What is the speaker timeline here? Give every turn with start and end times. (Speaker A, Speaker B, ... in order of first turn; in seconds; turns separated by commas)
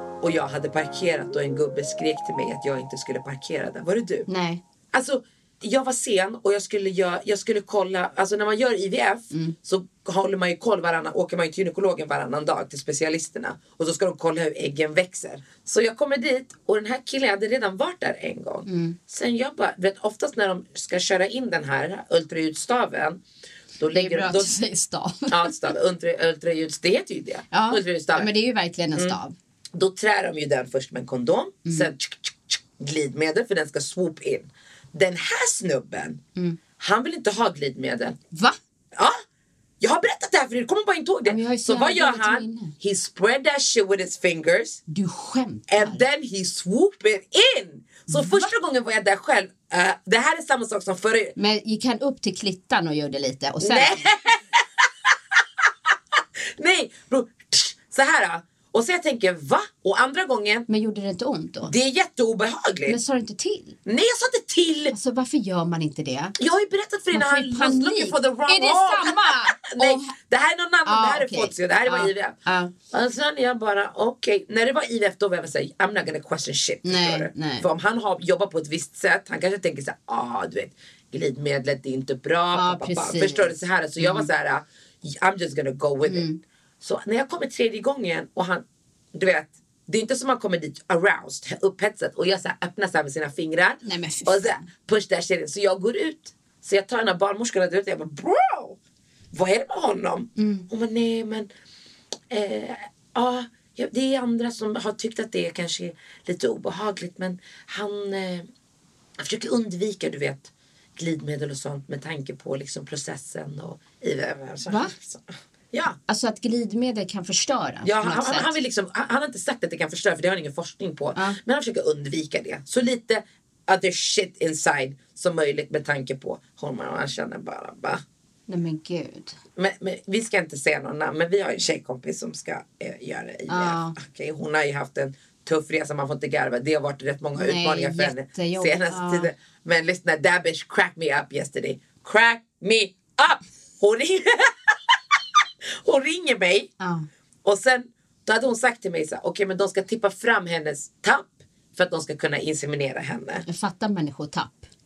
Speaker A: 0.2-4.3, Speaker B: 4.3-4.6, Speaker A: 4.9-23.2, Speaker B: 18.7-19.0, Speaker A: 23.8-24.6, Speaker B: 23.9-25.5, Speaker A: 25.3-28.3, Speaker B: 27.5-29.4, Speaker A: 29.7-36.2, Speaker B: 31.6-31.9, Speaker A: 36.8-38.2, Speaker A: 39.8-44.8, Speaker B: 41.2-42.7, Speaker B: 44.9-46.0, Speaker A: 45.7-51.4, Speaker B: 48.1-48.5, Speaker B: 51.4-54.1, Speaker A: 53.6-54.6, Speaker A: 56.6-60.7, Speaker B: 60.7-61.7, Speaker A: 61.6-63.0, Speaker B: 62.9-63.8, Speaker A: 63.9-64.9, Speaker B: 64.9-66.3, Speaker A: 66.4-72.4, Speaker B: 67.1-70.1, Speaker B: 70.8-72.7, Speaker A: 72.9-86.3, Speaker B: 76.8-77.7, Speaker B: 82.5-84.3, Speaker B: 86.0-86.4, Speaker A: 86.8-98.8, Speaker B: 93.8-94.7, Speaker A: 99.3-101.5, Speaker B: 100.4-100.7, Speaker A: 102.3-108.5, Speaker A: 109.2-116.0, Speaker B: 114.7-114.9, Speaker B: 116.1-118.5, Speaker A: 117.8-128.0, Speaker B: 128.5-129.3, Speaker A: 129.6-144.9, Speaker B: 133.5-133.9, Speaker B: 137.4-139.3, Speaker A: 145.8-146.7, Speaker B: 146.8-147.1, Speaker A: 147.4-153.4, Speaker B: 153.5-154.7